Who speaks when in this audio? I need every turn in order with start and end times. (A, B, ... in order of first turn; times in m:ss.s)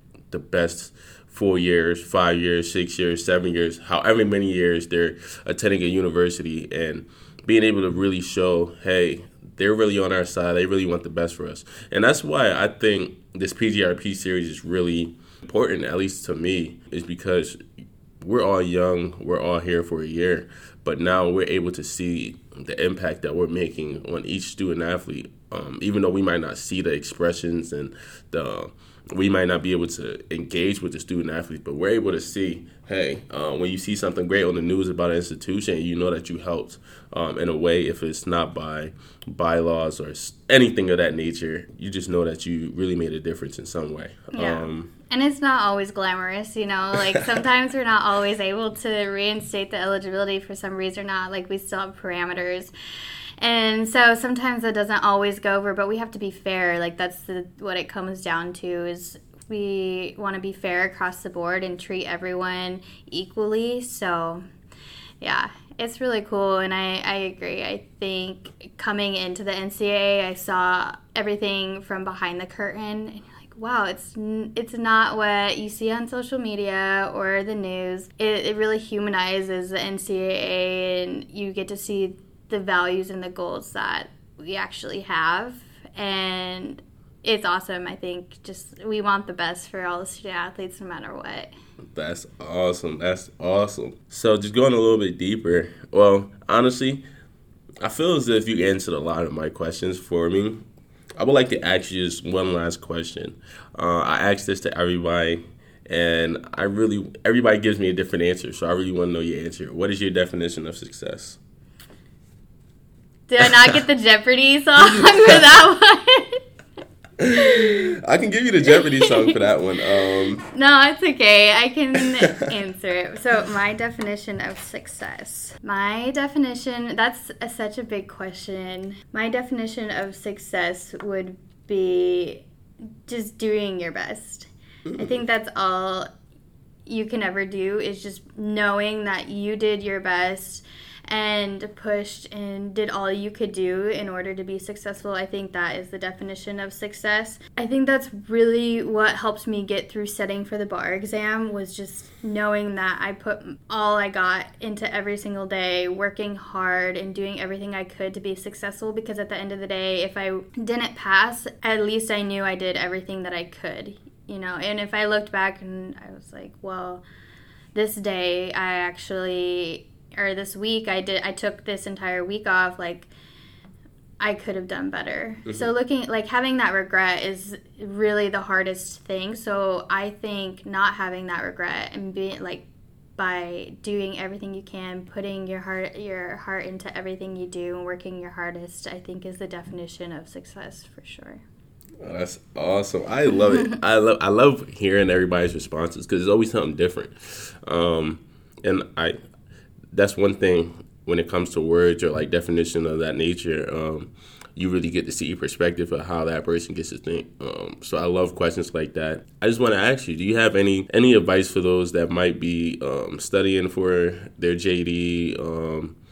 0:00.3-0:17.6 A
0:18.2-0:44.9 A
0:44.3-0:52.7 B
0:53.4-1:04.4 B
1:05.2-1:31.5 B
1:31.9-1:37.0 A
1:37.8-1:40.6 A
1:41.2-1:51.4 A
1:53.3-1:56.4 B
1:57.2-2:00.5 A
1:57.4-1:57.9 B
1:58.7-1:59.4 B
2:00.5-2:12.4 B
2:13.0-2:16.1 B
2:14.9-2:15.2 A
2:16.8-2:47.0 B
2:47.7-2:53.1 B
2:54.2-3:02.6 B
3:03.2-3:11.4 B
3:12.0-3:19.2 A
3:19.9-3:36.0 A